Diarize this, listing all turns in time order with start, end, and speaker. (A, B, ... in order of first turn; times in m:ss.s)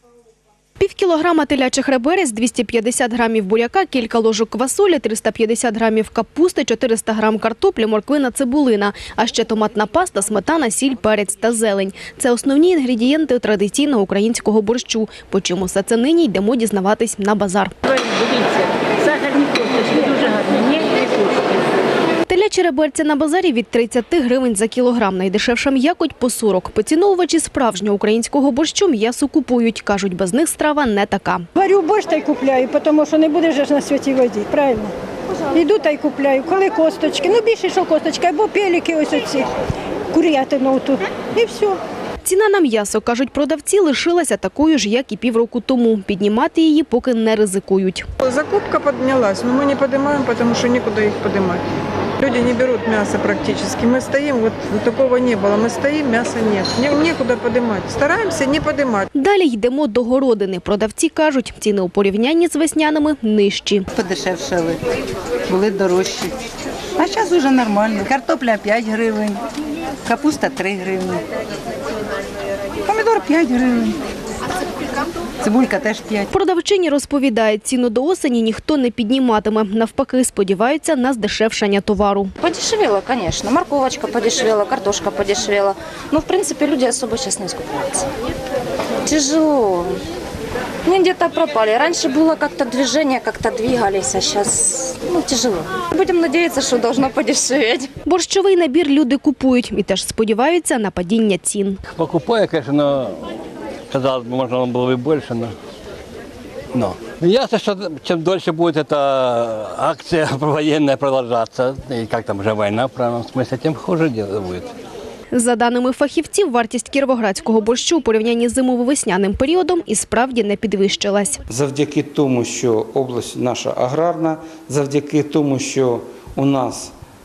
0:00.8-0:17.8 A
0:22.3-0:31.4 A
0:31.6-0:34.9 B
0:35.5-0:39.5 B
0:40.1-0:41.8 B
0:42.2-0:48.1 A
0:48.2-0:51.6 C
0:52.2-0:59.1 C
0:59.1-1:03.8 A
1:03.9-1:04.8 D
1:05.4-1:06.4 D
1:07.0-1:09.4 D
1:10.0-1:11.2 D
1:12.8-1:14.0 D
1:15.4-1:16.3 D
1:16.3-1:22.3 A
1:22.4-1:28.0 E
1:29.1-1:29.9 E
1:30.9-1:37.8 E
1:38.0-1:41.8 A
1:41.9-1:43.3 F
1:43.9-1:45.5 F
1:46.7-1:54.7 F
1:55.3-2:01.4 A
2:01.5-2:06.9 G